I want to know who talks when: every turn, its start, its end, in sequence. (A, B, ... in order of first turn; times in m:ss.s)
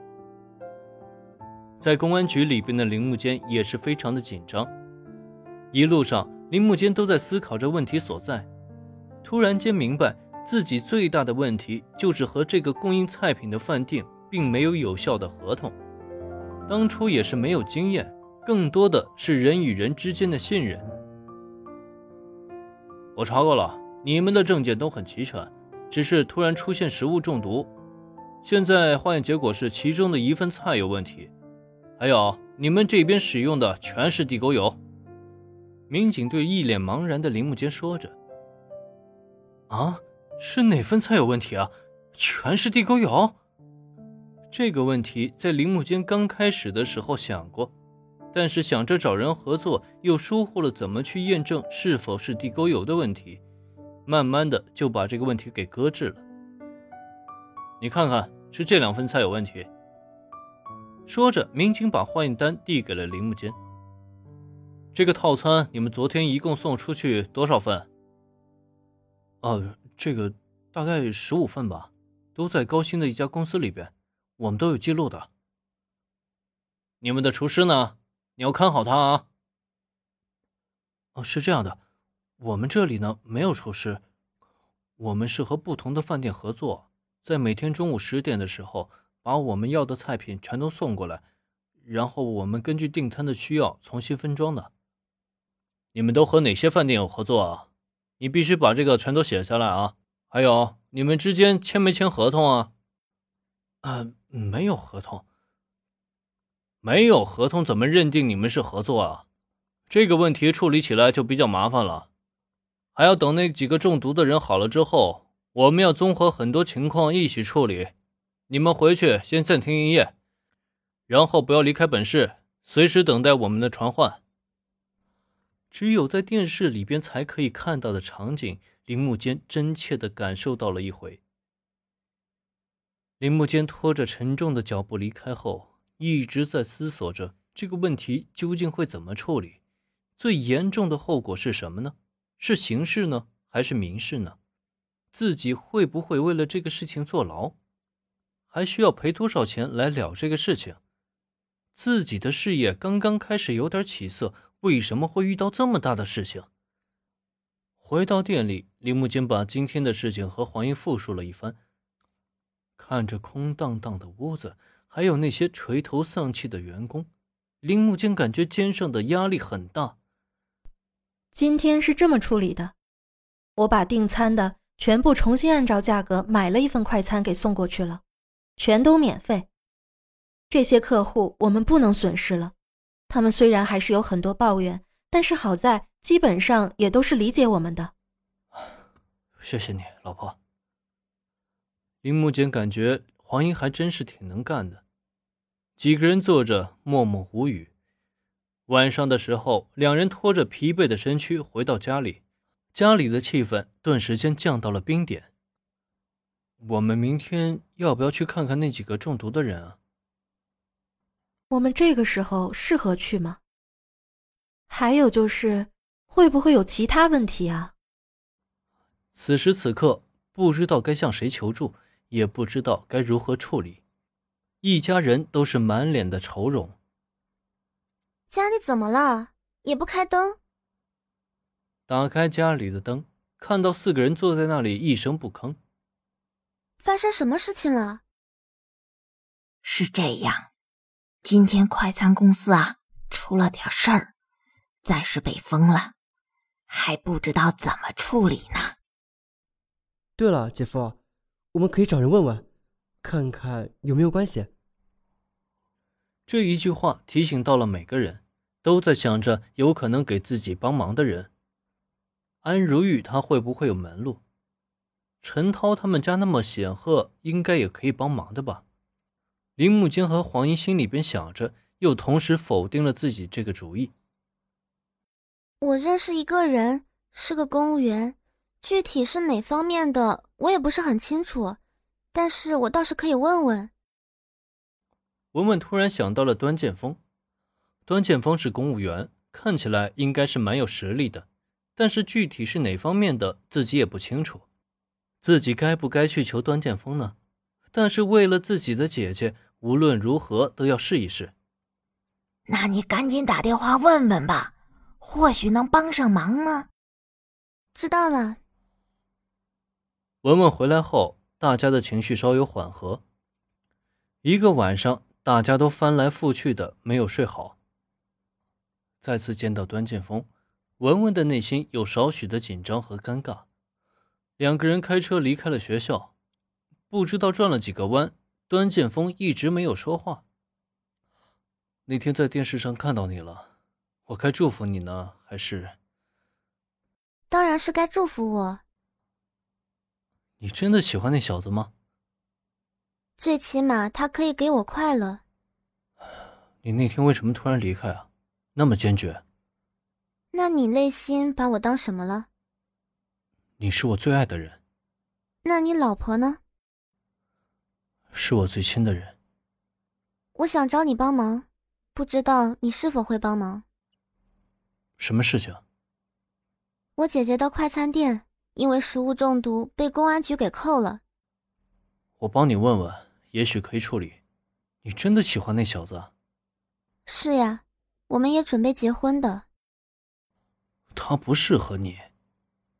0:01.8-0:04.7 A
0:05.7-0:08.5 A
0:09.2-0:15.8 A
0:16.7-0:20.9 A
0:23.2-0:27.7 A
0:28.4-0:31.3 A
0:32.0-0:34.8 A
0:35.9-0:38.2 A
0:39.7-0:43.4 A
0:44.5-0:47.7 A
0:48.3-0:53.4 A
0:54.0-0:56.2 A
0:57.8-0:59.7 A
1:01.1-1:03.6 A
1:04.9-1:07.9 A
1:09.4-1:15.3 A
1:17.0-1:19.3 A
1:21.2-1:21.8 A
1:22.4-1:24.0 A
1:25.0-1:31.2 A
1:31.8-1:34.7 A
1:35.9-1:37.7 A
1:38.2-1:42.7 A
1:43.8-1:45.2 A
1:46.8-1:49.2 A
1:49.9-1:52.1 A
1:53.0-1:57.9 A
1:58.5-2:00.2 A
2:01.1-2:04.2 A
2:05.7-2:11.2 A
2:13.2-2:19.6 A
2:20.2-2:24.4 A
2:25.1-2:27.6 A
2:28.5-2:30.8 A
2:31.8-2:36.5 A
2:37.8-2:41.6 A
2:42.8-2:47.1 A
2:47.6-2:50.0 A
2:51.3-2:52.8 B
2:53.6-2:58.0 B
2:58.6-2:59.5 B
3:00.5-3:02.5 B
3:03.1-3:07.9 B
3:09.4-3:10.4 A
3:12.0-3:14.8 A
3:15.8-3:17.7 A
3:18.7-3:22.2 A
3:22.7-3:25.3 A
3:26.6-3:29.8 A
3:31.5-3:33.4 B
3:34.7-3:37.7 B
3:39.2-3:43.8 A
3:44.6-3:46.8 A
3:48.3-3:50.4 C
3:51.9-3:55.6 A
3:56.8-3:58.0 C
3:59.6-4:00.5 D
4:01.2-4:04.1 D
4:04.8-4:05.9 D
4:06.7-4:08.8 D
4:10.2-4:11.0 E
4:11.5-4:12.4 E
4:13.0-4:14.5 E
4:16.3-4:21.3 A
4:22.4-4:24.2 A
4:25.2-4:28.6 A
4:29.6-4:33.9 A
4:35.6-4:41.6 C
4:42.1-4:43.7 C
4:45.3-4:47.0 A
4:47.9-4:51.3 A
4:51.8-4:54.4 A
4:55.2-4:57.2 A
4:57.7-5:01.3 A
5:02.5-5:06.7 D
5:07.8-5:08.4 C
5:10.2-5:13.0 A
5:14.2-5:17.6 A
5:19.0-5:20.3 A
5:20.8-5:23.5 A
5:24.4-5:26.1 A
5:26.9-5:30.2 A
5:31.9-5:33.5 A
5:34.1-5:35.8 A
5:37.3-5:38.6 C
5:40.4-5:41.7 A
5:43.2-5:45.2 C
5:46.6-5:49.2 A
5:50.3-5:52.3 C
5:53.6-5:54.6 A
5:55.4-5:56.4 C
5:58.1-5:59.2 A
6:00.4-6:03.6 C
6:05.0-6:05.6 A
6:07.0-6:11.0 C
6:12.2-6:14.2 A
6:14.8-6:16.1 A
6:17.1-6:19.5 C
6:20.9-6:22.1 A